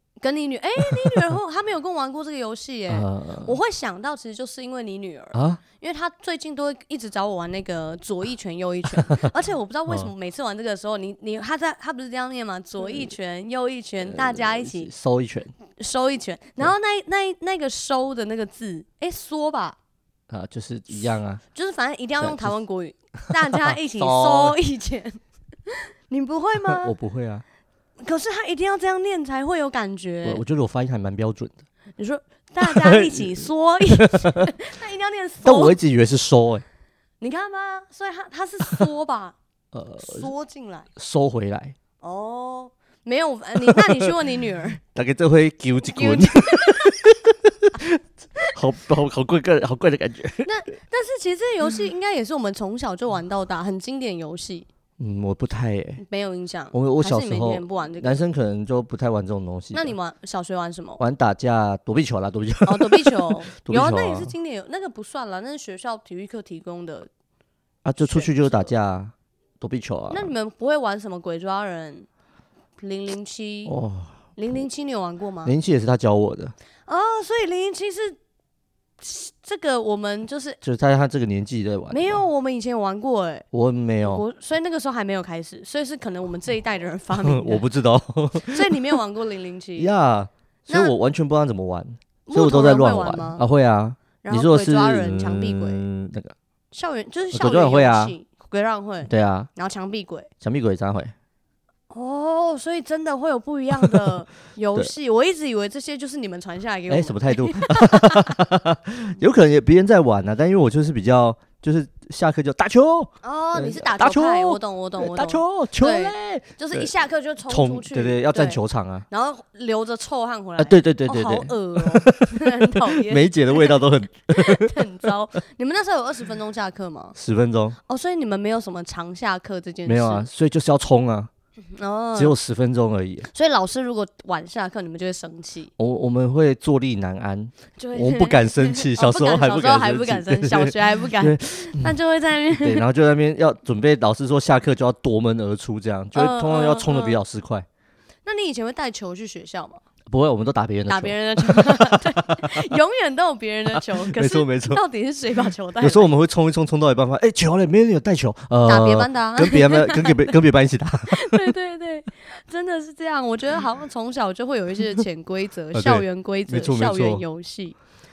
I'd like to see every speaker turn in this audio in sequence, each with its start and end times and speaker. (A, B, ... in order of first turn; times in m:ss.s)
0:00.2-0:14.9 A
0:01.0-0:01.4 B
0:02.9-0:03.6 B
0:05.3-0:05.6 B
0:14.0-0:15.5 B
0:15.8-0:19.8 A
0:20.3-0:21.4 B
0:21.5-0:27.0 A
0:22.2-0:22.6 B
0:23.2-0:24.6 B
0:26.7-0:27.4 B
0:28.0-0:30.4 A
0:30.2-0:31.6 B
0:32.0-0:35.8 A
0:32.6-0:34.4 B
0:35.4-0:36.6 B
0:37.2-0:39.4 A
0:39.7-0:40.3 B
0:40.0-0:40.9 A
0:41.0-0:41.8 B
0:42.0-0:44.8 A
0:45.0-0:48.0 B
0:45.9-0:47.1 A
0:48.5-0:50.5 B
0:50.4-0:54.7 A
0:55.0-0:56.0 B
0:56.0-0:58.2 A
0:56.7-1:00.0 B
0:59.7-1:01.0 A
1:01.0-1:04.3 B
1:02.6-1:07.1 A
1:07.8-1:10.3 B
1:08.0-1:08.7 A
1:10.1-1:12.1 A
1:12.8-1:13.8 A
1:13.7-1:14.2 B
1:14.4-1:15.5 A
1:15.4-1:16.6 B
1:16.9-1:18.2 A
1:19.0-1:20.6 A
1:20.6-1:22.2 B
1:21.9-1:23.4 A
1:23.5-1:24.2 B
1:24.0-1:27.6 A
1:27.2-1:29.0 B
1:28.4-1:29.9 A
1:29.8-1:36.3 B
1:30.7-1:31.0 A
1:32.3-1:33.4 A
1:34.2-1:35.8 A
1:36.7-1:40.3 A
1:37.3-1:38.2 B
1:39.0-1:39.5 B
1:40.4-1:41.1 B
1:41.9-1:48.4 A
1:46.9-1:56.9 B
1:53.2-2:07.2 A
1:57.5-1:59.1 B
2:00.6-2:05.1 B
2:07.2-2:07.8 B
2:07.9-2:10.3 A
2:09.9-2:11.3 B
2:11.7-2:12.4 A
2:12.2-2:13.3 B
2:13.3-2:15.7 A
2:15.8-2:22.0 B
2:17.8-2:22.9 A
2:22.5-2:27.7 B
2:26.2-2:27.2 A
2:28.2-2:29.8 A
2:30.1-2:32.1 B
2:30.9-2:36.1 A
2:34.1-2:34.8 B
2:35.8-2:41.4 B
2:38.6-2:40.4 A
2:41.1-2:47.8 A
2:45.7-2:47.2 B